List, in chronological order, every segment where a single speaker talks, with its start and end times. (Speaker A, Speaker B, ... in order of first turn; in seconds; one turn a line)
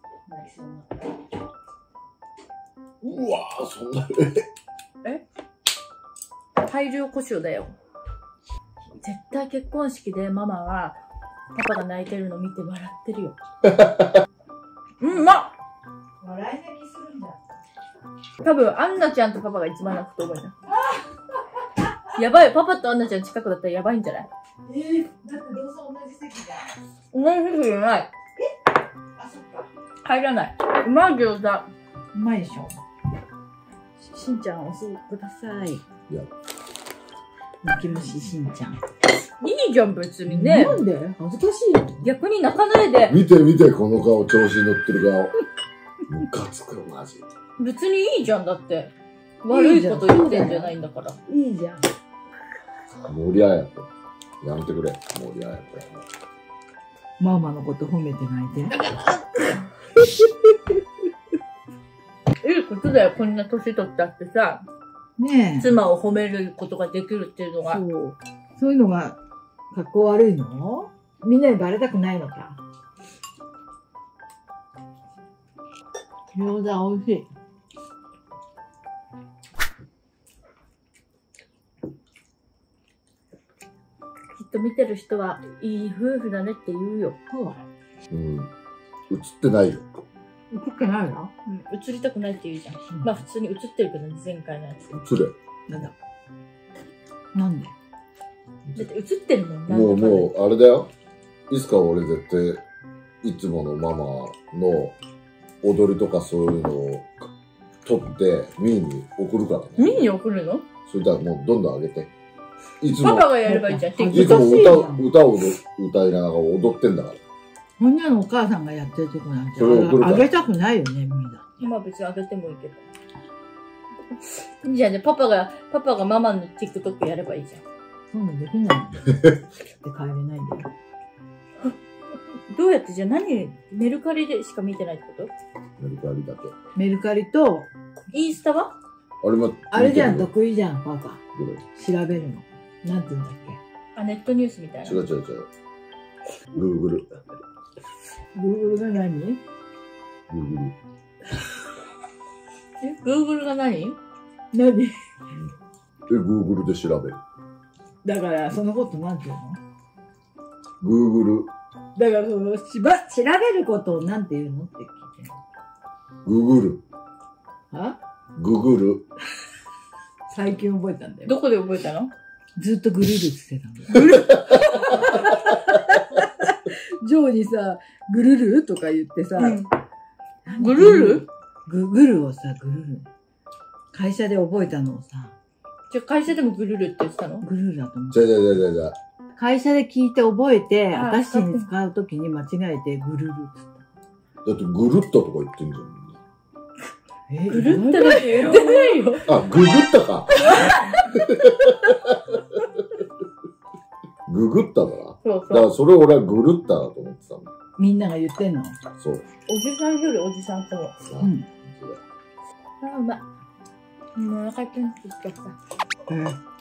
Speaker A: 0.3-1.2
Speaker B: 3.0-4.5
Speaker C: 6.6-7.8
Speaker C: 9.0-11.0
Speaker C: 11.5-13.3
Speaker B: 13.7-14.1
Speaker C: 15.0-15.5
Speaker A: 16.2-17.6
Speaker C: 18.4-20.5
Speaker A: 20.7-21.2
Speaker C: 22.1-24.3
Speaker A: 24.6-26.8
Speaker C: 27.1-28.1
Speaker A: 29.1-29.7
Speaker C: 30.0-31.7
Speaker A: 32.1-32.8
Speaker C: 34.0-34.6
Speaker A: 34.2-35.8
Speaker A: 37.6-38.8
Speaker C: 39.4-40.8
Speaker A: 40.2-42.0
Speaker C: 42.0-43.2
Speaker B: 43.1-45.3
Speaker B: 46.1-47.2
Speaker C: 47.6-51.2
Speaker A: 49.5-50.7
Speaker A: 51.3-51.8
Speaker B: 53.0-53.9
Speaker B: 54.4-56.0
Speaker A: 57.2-58.8
Speaker C: 62.4-64.6
Speaker A: 65.2-65.7
Speaker C: 65.6-67.8
Speaker A: 67.6-69.2
Speaker A: 69.7-72.6
Speaker A: 76.3-77.3
Speaker C: 84.3-87.2
Speaker A: 87.3-87.6
Speaker B: 88.1-88.5
Speaker B: 89.1-90.0
Speaker A: 90.5-91.3
Speaker C: 91.5-94.8
Speaker A: 92.9-93.2
Speaker B: 94.9-95.9
Speaker A: 95.7-95.9
Speaker A: 97.3-97.7
Speaker C: 98.7-100.3
Speaker B: 99.7-100.9
Speaker B: 101.5-102.6
Speaker B: 103.2-105.0
Speaker B: 105.6-107.3
Speaker B: 107.8-110.1
Speaker C: 109.8-110.7
Speaker B: 110.8-112.1
Speaker B: 112.8-113.4
Speaker C: 112.9-114.5
Speaker A: 113.4-115.0
Speaker B: 114.1-117.2
Speaker A: 117.8-121.6
Speaker B: 119.5-120.3
Speaker C: 121.6-122.8
Speaker C: 124.2-127.6
Speaker A: 128.1-129.0
Speaker A: 129.7-130.7
Speaker C: 132.5-135.3
Speaker B: 135.8-136.5
Speaker A: 136.7-137.7
Speaker C: 138.1-138.8
Speaker B: 139.2-140.3
Speaker A: 139.7-141.2
Speaker B: 141.3-141.6
Speaker A: 141.7-143.6
Speaker C: 143.9-145.0
Speaker B: 144.8-145.5
Speaker B: 146.5-147.1
Speaker A: 148.3-149.4
Speaker B: 150.3-150.8
Speaker C: 152.8-154.0
Speaker A: 154.5-154.9
Speaker B: 156.1-157.2
Speaker A: 158.0-159.6
Speaker B: 160.8-161.5
Speaker A: 161.9-165.3
Speaker B: 166.2-166.8
Speaker A: 167.7-168.0
Speaker B: 168.4-169.1
Speaker A: 170.3-171.4
Speaker C: 171.2-172.1
Speaker A: 172.6-179.7
Speaker C: 179.4-179.7
Speaker A: 180.4-183.1
Speaker C: 180.5-181.2
Speaker A: 183.9-185.3
Speaker C: 185.9-187.4
Speaker A: 187.4-188.2
Speaker B: 188.1-189.0
Speaker A: 189.4-193.8
Speaker C: 190.9-191.7
Speaker B: 194.4-196.2
Speaker A: 197.3-199.1
Speaker C: 197.5-199.3
Speaker B: 199.3-202.8
Speaker C: 200.4-201.0
Speaker B: 204.3-207.5
Speaker C: 205.2-205.7
Speaker A: 207.8-208.8
Speaker B: 209.0-209.2
Speaker C: 209.4-211.0
Speaker B: 211.0-212.0
Speaker A: 211.2-211.4
Speaker C: 212.8-213.2
Speaker C: 214.1-215.6
Speaker A: 216.1-216.4